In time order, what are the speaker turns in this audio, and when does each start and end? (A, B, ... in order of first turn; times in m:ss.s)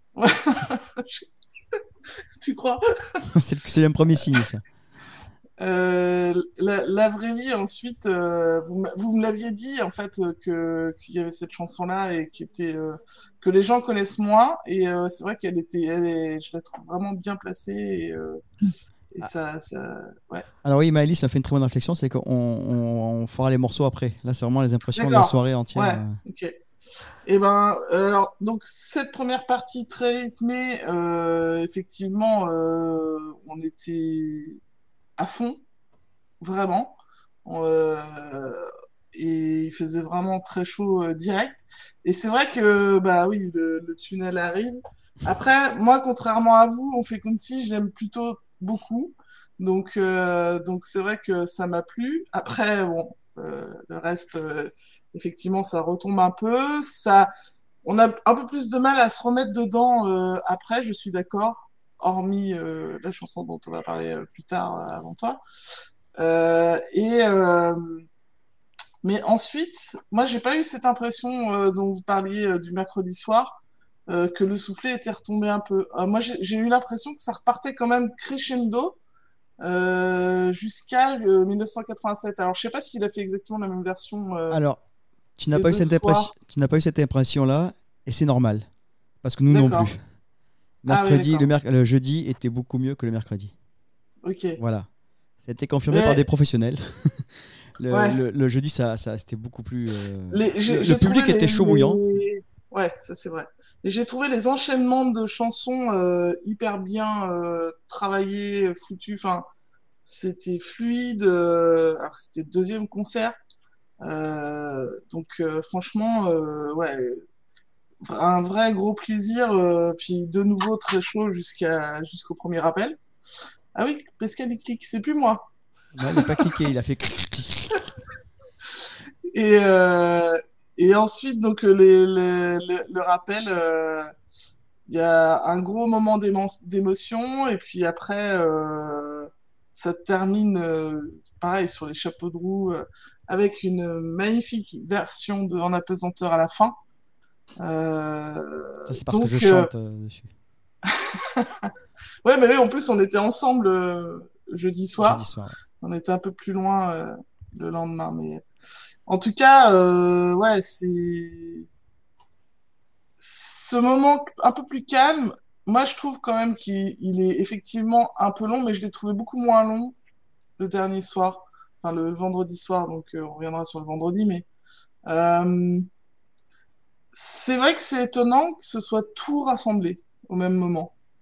0:00.2-0:01.8 A
0:02.4-0:03.2 A
0:03.3-0:04.6 B
0:05.6-0:18.4 A
0:19.1-0:20.5 A
0:20.6-0:26.2 B
0:25.0-0:26.6 A
0:27.2-0:34.6 A
0:35.2-0:35.6 A
0:36.4-0:57.3 A
0:57.8-1:05.4 A
1:06.2-1:08.0 A
1:09.0-1:19.0 A
1:19.6-1:24.6 A
1:24.5-1:24.8 B
1:25.4-1:28.7 B
1:25.5-1:26.3 A
1:29.2-1:30.0 B
1:29.5-1:29.9 A
1:30.8-1:33.5 B
1:30.9-1:31.5 A
1:34.2-1:34.6 A
1:34.6-1:34.9 B
1:35.4-1:37.2 B
1:35.9-1:36.2 A
1:37.8-1:42.2 B
1:37.9-1:38.2 A
1:40.3-1:49.5 A
1:50.0-1:53.4 A
1:54.0-1:57.2 A
1:58.0-2:03.0 A
2:03.8-2:05.4 A
2:06.0-2:07.8 B
2:06.1-2:06.5 A
2:09.3-2:14.1 A
2:14.9-2:26.8 A
2:27.6-2:29.7 A
2:28.9-2:30.3 B
2:30.9-2:31.7 A
2:32.2-2:35.3 A
2:35.0-2:35.6 B
2:35.8-2:38.4 A
2:39.1-2:41.7 A
2:43.2-2:50.0 A
2:50.6-2:54.5 A
2:55.1-2:55.9 A
2:57.1-3:00.9 A